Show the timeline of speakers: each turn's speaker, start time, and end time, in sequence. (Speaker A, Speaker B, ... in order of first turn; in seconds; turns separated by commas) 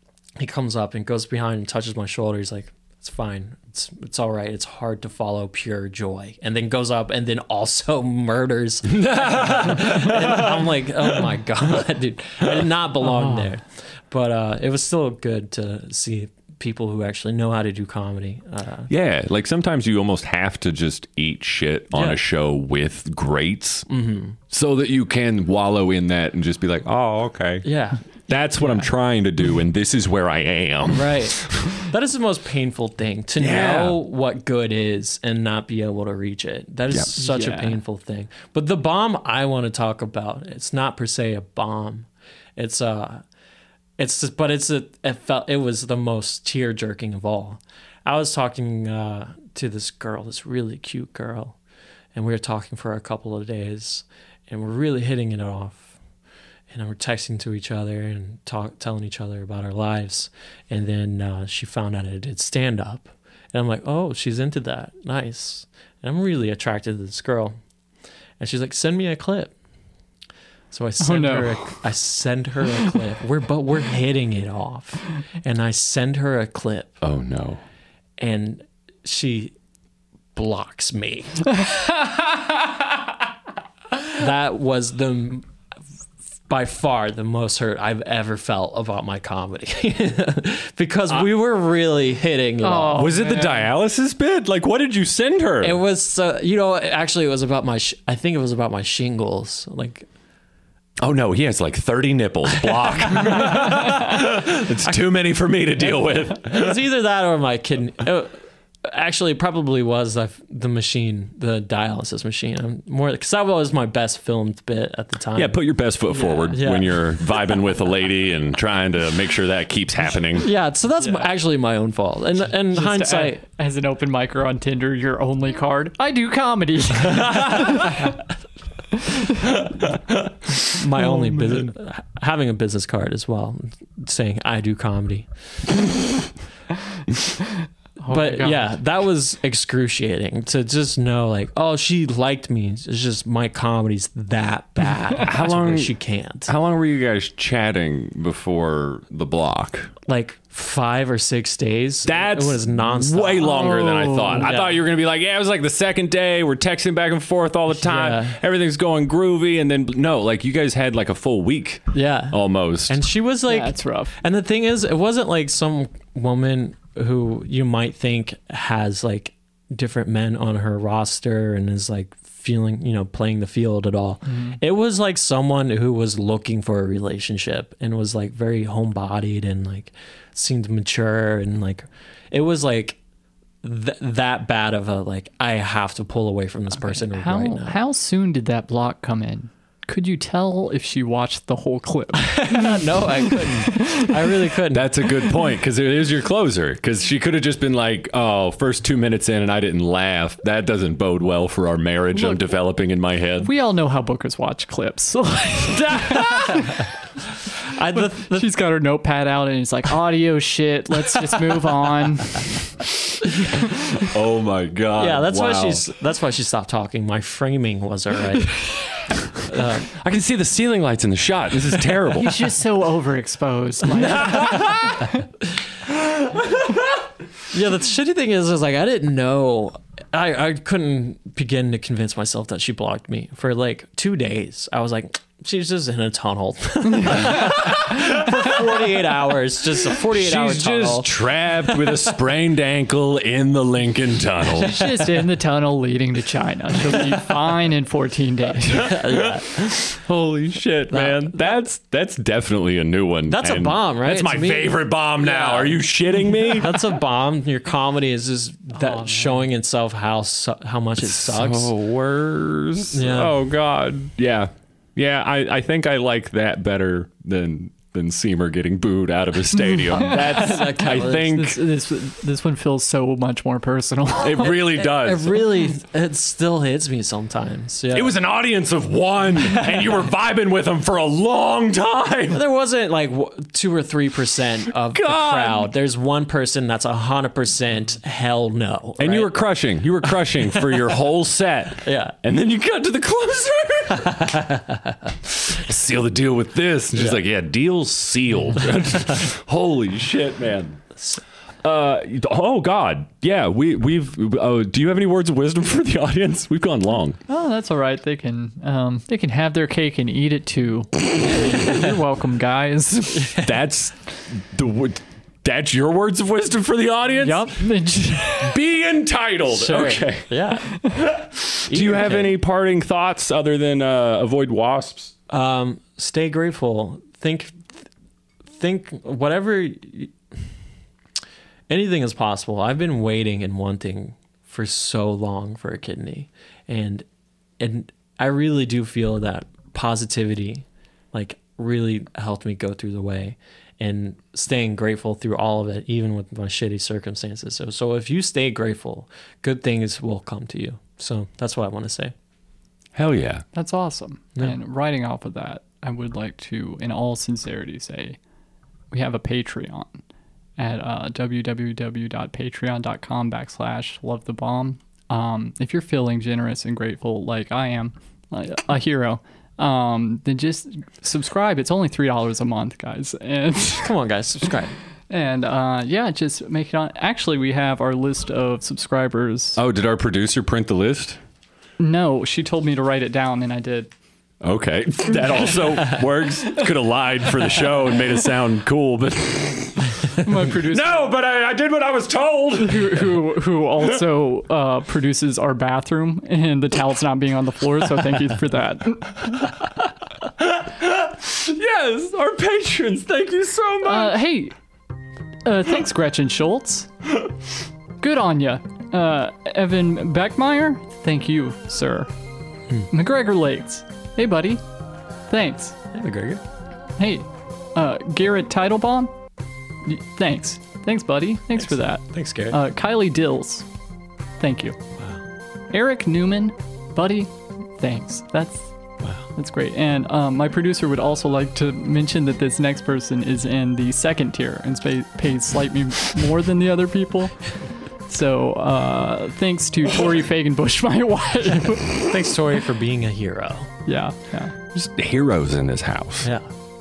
Speaker A: 0.4-18.9, Speaker B: 8.9-10.6, Speaker B: 18.9-23.9, Speaker A: 21.9-22.2, Speaker A: 23.9-24.4, Speaker B: 24.5-27.7, Speaker A: 27.6-28.1, Speaker B: 28.3-31.8, Speaker A: 28.6-28.9, Speaker A: 30.9-43.2, Speaker B: 33.4-34.0, Speaker C: 37.2-37.8, Speaker A: 44.0-51.6, Speaker A: 52.1-56.0, Speaker A: 56.7-67.5, Speaker A: 68.4-69.5, Speaker A: 70.7-77.0, Speaker C: 71.0-71.7, Speaker B: 77.0-77.6, Speaker A: 78.2-79.5, Speaker A: 80.3-81.5, Speaker A: 84.0-85.5, Speaker A: 86.5-93.3, Speaker C: 92.6-93.7, Speaker B: 93.0-95.8, Speaker A: 95.6-100.1, Speaker B: 101.0-106.8, Speaker A: 103.1-104.2, Speaker A: 106.3-115.6, Speaker B: 115.3-120.5, Speaker A: 116.5-117.0, Speaker A: 120.4-123.4, Speaker C: 122.7-128.2, Speaker C: 128.9-129.5, Speaker A: 130.6-135.3, Speaker B: 131.2-131.6, Speaker C: 138.0-138.7, Speaker A: 138.1-146.5, Speaker B: 145.2-145.9, Speaker B: 146.5-149.9, Speaker A: 150.1-153.8, Speaker B: 152.1-163.0, Speaker C: 153.4-154.5, Speaker A: 154.4-154.8, Speaker A: 157.7-158.4, Speaker A: 161.9-183.0, Speaker C: 163.5-164.1, Speaker C: 174.3-174.6, Speaker A: 183.6-187.8, Speaker C: 186.8-194.1, Speaker A: 192.2-195.1, Speaker B: 194.7-203.5, Speaker C: 202.1-202.4, Speaker C: 203.4-206.9, Speaker A: 206.0-206.8, Speaker A: 207.7-208.5, Speaker C: 208.3-212.5, Speaker B: 214.0-215.8, Speaker A: 215.0-219.9, Speaker B: 219.9-222.5, Speaker C: 222.1-225.2, Speaker B: 224.0-224.9, Speaker A: 227.5-241.1, Speaker C: 237.0-237.3, Speaker B: 240.1-244.8, Speaker C: 244.6-249.0, Speaker A: 248.7-249.8, Speaker B: 249.2-257.0, Speaker A: 250.9-251.5, Speaker A: 253.3-255.9, Speaker A: 256.4-261.7, Speaker C: 258.9-259.2, Speaker B: 261.0-271.6, Speaker A: 262.9-263.4, Speaker A: 269.9-271.4, Speaker C: 269.9-274.5, Speaker B: 274.2-275.4, Speaker A: 274.4-278.1, Speaker B: 277.9-282.4, Speaker A: 282.3-289.3, Speaker B: 284.9-285.7, Speaker B: 289.0-294.3, Speaker A: 290.5-290.9, Speaker A: 291.8-292.1, Speaker A: 294.0-294.8, Speaker B: 295.2-300.8, Speaker B: 301.6-307.2, Speaker C: 307.3-313.3, Speaker A: 313.2-313.5, Speaker B: 313.4-317.5, Speaker C: 317.2-318.6, Speaker B: 318.4-320.3, Speaker A: 319.5-321.1, Speaker B: 321.0-325.1, Speaker A: 321.7-322.4, Speaker A: 325.3-327.6, Speaker A: 328.5-330.1, Speaker A: 331.7-337.1, Speaker A: 337.6-352.1, Speaker B: 352.9-353.4, Speaker C: 353.5-358.2, Speaker C: 358.9-360.0, Speaker C: 360.6-373.9, Speaker A: 373.8-374.8, Speaker C: 375.1-379.6, Speaker B: 379.6-381.2, Speaker C: 381.8-383.9, Speaker B: 384.4-393.3, Speaker C: 390.2-391.1, Speaker C: 392.6-399.5, Speaker B: 400.4-404.2, Speaker C: 403.8-404.6, Speaker C: 405.4-406.9, Speaker C: 408.0-412.1, Speaker C: 412.9-414.6, Speaker C: 415.3-415.8, Speaker A: 415.9-416.4, Speaker C: 417.0-419.1, Speaker C: 419.8-423.7, Speaker A: 422.1-422.6, Speaker C: 424.4-424.8, Speaker C: 425.7-428.7, Speaker C: 429.3-437.4, Speaker C: 438.1-442.1, Speaker A: 441.9-443.7, Speaker C: 443.9-444.5, Speaker B: 444.7-446.3, Speaker A: 446.2-446.5